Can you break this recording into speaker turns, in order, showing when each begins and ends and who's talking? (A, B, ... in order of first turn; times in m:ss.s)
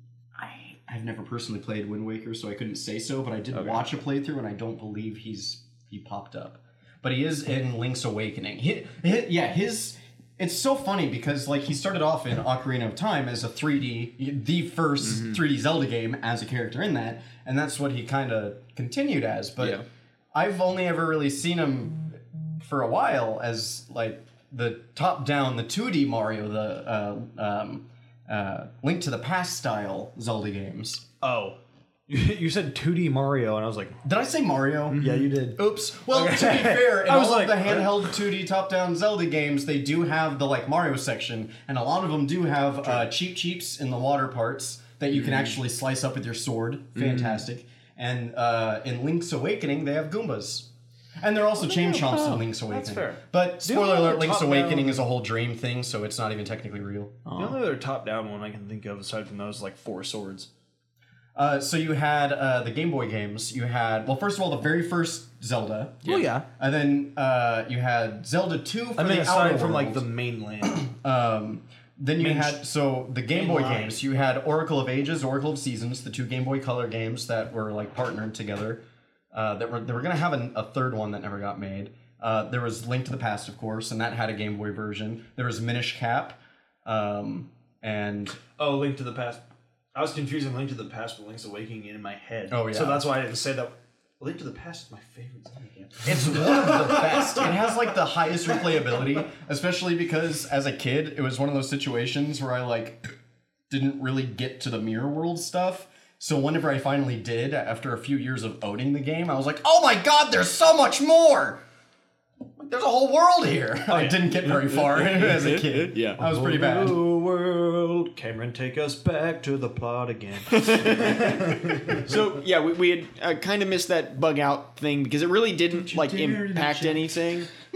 0:00.4-0:19.8 A
0:03.5-0:03.8 B
0:15.0-0:15.4 C
0:19.6-0:19.8 C
0:20.3-0:31.0 A
0:31.2-0:34.0 B
0:34.0-0:50.7 A
0:34.9-0:38.2 B
0:47.0-0:47.4 C
0:51.2-0:57.2 A
0:51.6-0:55.0 B
0:57.2-0:57.6 C
0:57.4-1:00.5 B
1:01.3-1:06.0 A
1:06.0-1:06.3 C
1:06.0-1:06.4 B
1:06.6-1:10.0 A
1:09.0-1:10.9 B
1:10.6-1:28.4 A
1:12.2-1:12.6 B
1:13.3-1:14.0 B
1:28.6-1:29.4 B
1:29.9-1:38.0 B
1:32.5-1:33.1 A
1:36.0-1:43.0 A
1:43.7-1:51.6 A
1:52.6-1:57.0 A
1:53.9-1:55.1 B
1:55.0-1:56.2 C
1:56.2-2:02.1 B
2:00.5-2:07.5 C
2:05.7-2:07.1 A